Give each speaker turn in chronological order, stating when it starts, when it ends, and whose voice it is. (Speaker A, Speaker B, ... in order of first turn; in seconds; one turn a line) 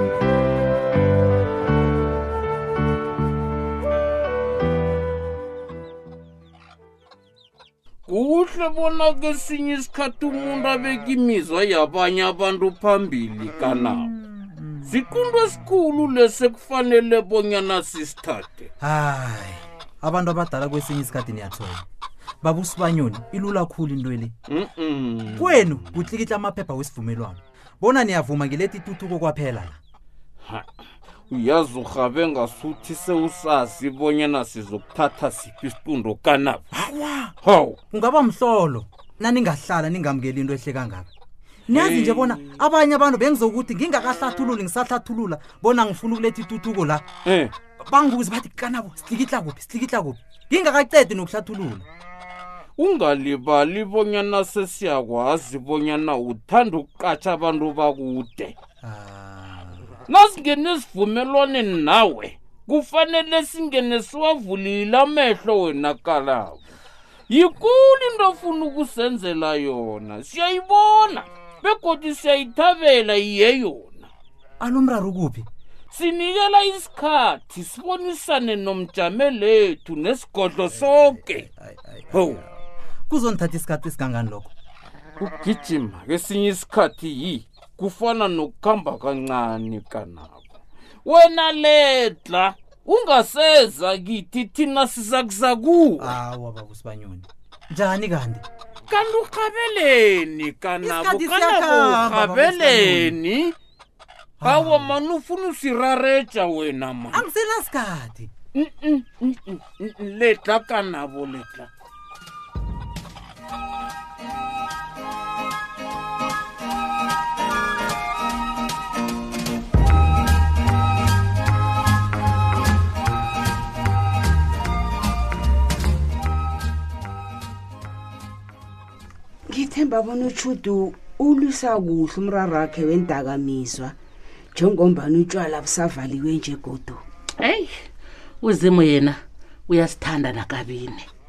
Speaker A: 8.1-14.1
Speaker B: 13.6-14.9
Speaker A: 14.8-18.7
Speaker B: 18.8-21.8
Speaker B: 22.4-24.3
Speaker A: 24.5-25.8
Speaker B: 25.3-29.8
Speaker A: 31.3-36.7
Speaker B: 36.7-37.3
Speaker A: 37.4-37.8
Speaker B: 37.9-41.1
Speaker B: 41.7-47.0
Speaker A: 41.7-42.4
Speaker A: 47.2-47.5
Speaker B: 47.8-51.9
Speaker A: 52.8-58.5
Speaker B: 58.8-59.8
Speaker A: 60.1-66.6
Speaker A: 67.3-74.1
Speaker B: 74.6-75.5
Speaker A: 75.9-81.5
Speaker B: 80.8-82.5
Speaker A: 82.1-82.4
Speaker B: 83.1-84.5
Speaker A: 85.2-90.4
Speaker A: 91.0-96.1
Speaker B: 96.0-98.4
Speaker A: 98.9-103.5
Speaker B: 100.8-103.2
Speaker B: 104.4-105.0
Speaker A: 104.4-107.2
Speaker B: 107.1-108.3
Speaker A: 108.5-111.7
Speaker C: 129.5-133.9
Speaker C: 134.5-137.0
Speaker D: 137.4-137.7
Speaker D: 138.4-141.1